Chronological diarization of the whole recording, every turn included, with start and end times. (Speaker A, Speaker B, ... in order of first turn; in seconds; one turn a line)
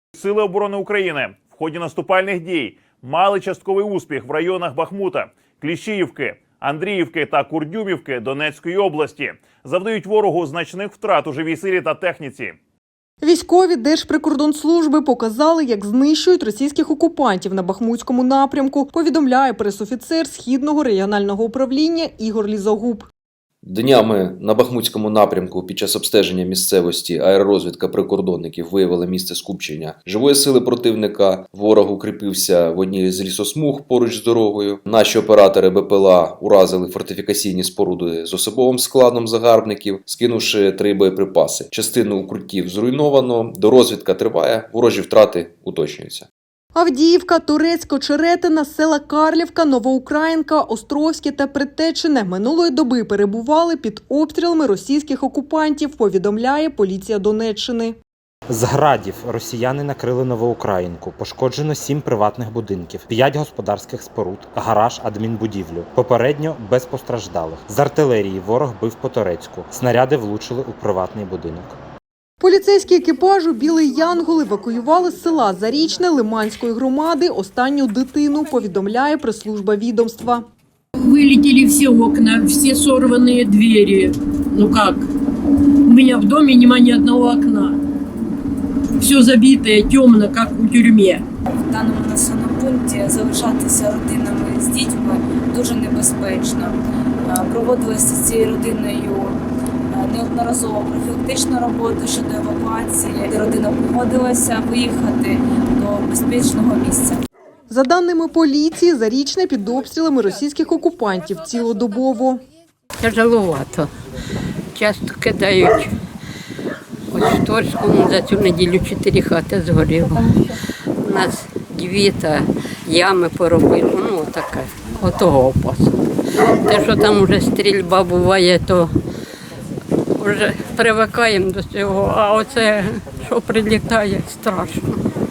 Speaker A: 0.1-12.6
Speaker B: 13.2-23.1
Speaker C: 23.6-46.3
Speaker B: 46.8-58.0
Speaker D: 58.5-71.8
Speaker B: 72.4-80.5
Speaker E: 81.0-85.1
Speaker E: 85.8-87.8
Speaker E: 88.9-91.2
Speaker F: 91.5-96.8
Speaker F: 97.3-99.3
Speaker F: 99.9-107.2
Speaker B: 107.7-112.4
Speaker G: 113.0-113.9
Speaker G: 114.8-115.9
Speaker G: 117.1-120.5
Speaker G: 121.0-126.0
Speaker G: 126.5-128.9
Speaker G: 130.2-135.0